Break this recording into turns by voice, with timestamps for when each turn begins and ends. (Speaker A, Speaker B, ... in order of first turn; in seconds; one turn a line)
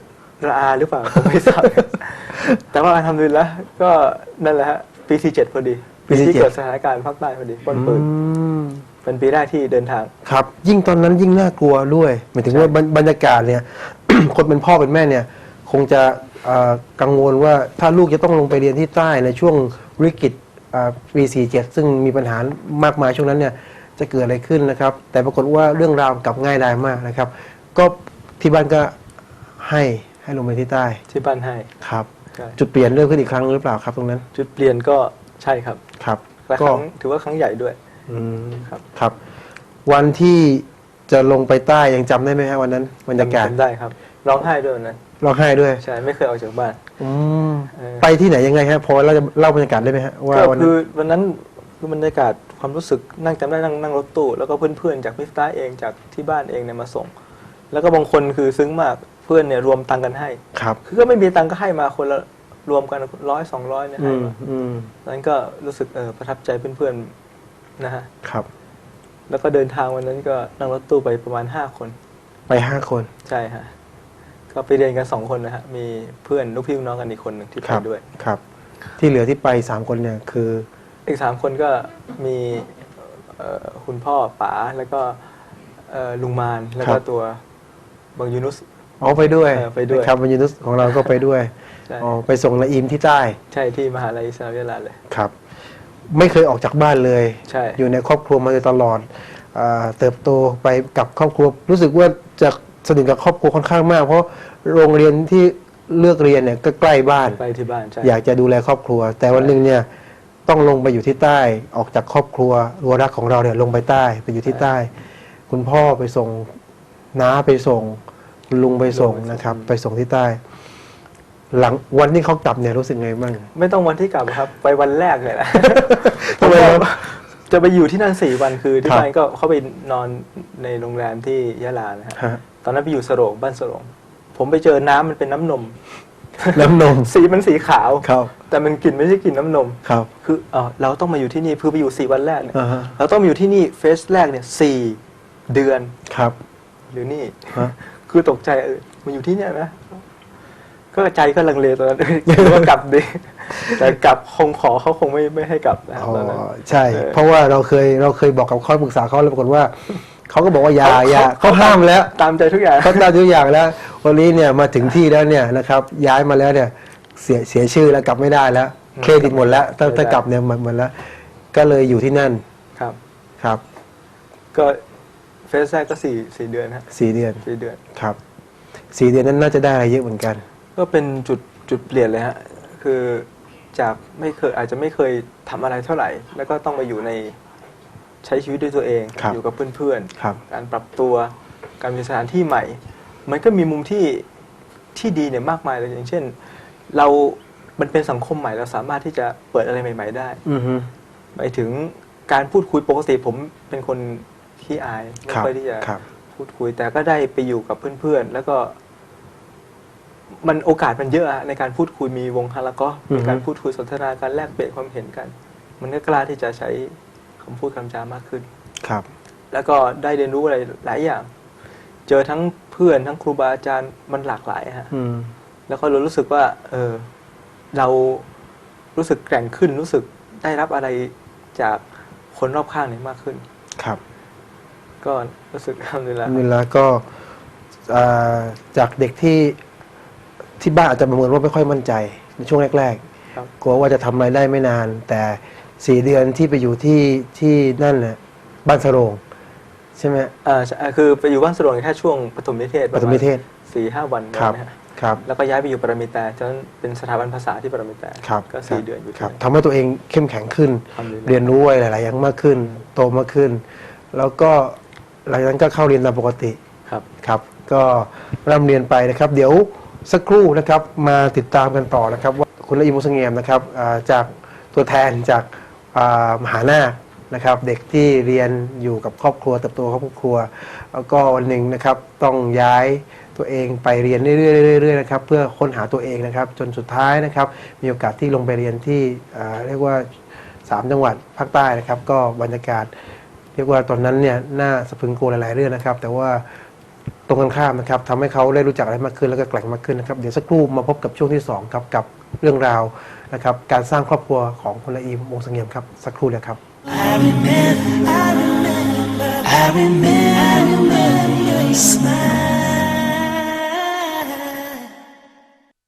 Speaker A: 0.4-8.1
Speaker B: 1.1-1.6
Speaker B: 6.1-6.5
Speaker B: 7.7-8.8
Speaker A: 9.0-10.1
Speaker B: 10.2-28.9
Speaker A: 12.5-12.7
Speaker B: 29.6-31.0
Speaker A: 31.1-31.7
Speaker B: 31.8-34.2
Speaker A: 34.3-35.8
Speaker B: 36.0-36.8
Speaker A: 36.5-37.8
Speaker B: 38.1-39.2
Speaker B: 39.9-43.5
Speaker A: 43.2-45.0
Speaker B: 45.2-45.8
Speaker A: 45.8-46.8
Speaker B: 47.0-50.7
Speaker A: 47.8-48.1
Speaker A: 50.3-57.1
Speaker A: 57.7-64.3
Speaker B: 60.5-60.8
Speaker B: 64.0-64.9
Speaker A: 65.0-67.1
Speaker A: 67.8-68.1
Speaker A: 69.3-72.0
Speaker B: 72.5-73.1
Speaker A: 73.2-73.7
Speaker A: 74.5-78.0
Speaker B: 77.6-78.4
Speaker B: 79.0-80.7
Speaker A: 81.1-85.2
Speaker A: 85.9-87.4
Speaker A: 88.2-88.6
Speaker B: 89.0-93.4
Speaker A: 89.5-90.1
Speaker A: 93.5-95.0
Speaker B: 96.1-107.4
Speaker A: 97.5-97.8
Speaker A: 107.3-108.1
Speaker B: 108.0-109.9
Speaker B: 110.5-114.9
Speaker B: 115.5-116.5
Speaker B: 117.1-120.4
Speaker A: 118.9-119.7
Speaker B: 121.5-123.5
Speaker A: 123.5-135.8
Speaker B: 125.6-126.9
Speaker A: 136.4-145.9
Speaker B: 136.5-137.1
Speaker B: 138.0-138.3
Speaker B: 142.6-142.9
Speaker B: 146.1-146.3
Speaker A: 146.9-150.0
Speaker A: 150.9-157.2
Speaker B: 156.0-162.1
Speaker A: 160.8-163.1
Speaker B: 162.8-172.4
Speaker A: 168.9-170.2
Speaker A: 174.5-174.8
Speaker A: 175.5-177.8
Speaker B: 176.9-178.2
Speaker B: 178.9-180.4
Speaker A: 180.8-187.4
Speaker A: 188.2-194.2
Speaker A: 194.9-196.3
Speaker A: 196.9-200.4
Speaker B: 200.4-200.9
Speaker A: 201.3-208.8
Speaker B: 205.3-206.0
Speaker A: 210.4-218.5
Speaker B: 213.1-213.4
Speaker A: 219.5-221.3
Speaker A: 222.1-224.9
Speaker B: 224.9-225.3
Speaker A: 225.7-227.1
Speaker A: 227.7-228.3
Speaker A: 229.0-231.8
Speaker A: 232.3-233.4
Speaker A: 235.0-236.4
Speaker B: 236.3-237.1
Speaker B: 237.9-239.6
Speaker B: 240.6-243.0
Speaker B: 243.6-249.2
Speaker B: 250.0-250.3
Speaker A: 250.4-259.4
Speaker B: 252.9-253.4
Speaker B: 254.3-255.2
Speaker B: 258.2-266.6
Speaker A: 260.9-261.5
Speaker B: 267.2-292.9
Speaker B: 293.6-296.5
Speaker B: 297.3-306.6
Speaker C: 306.9-314.9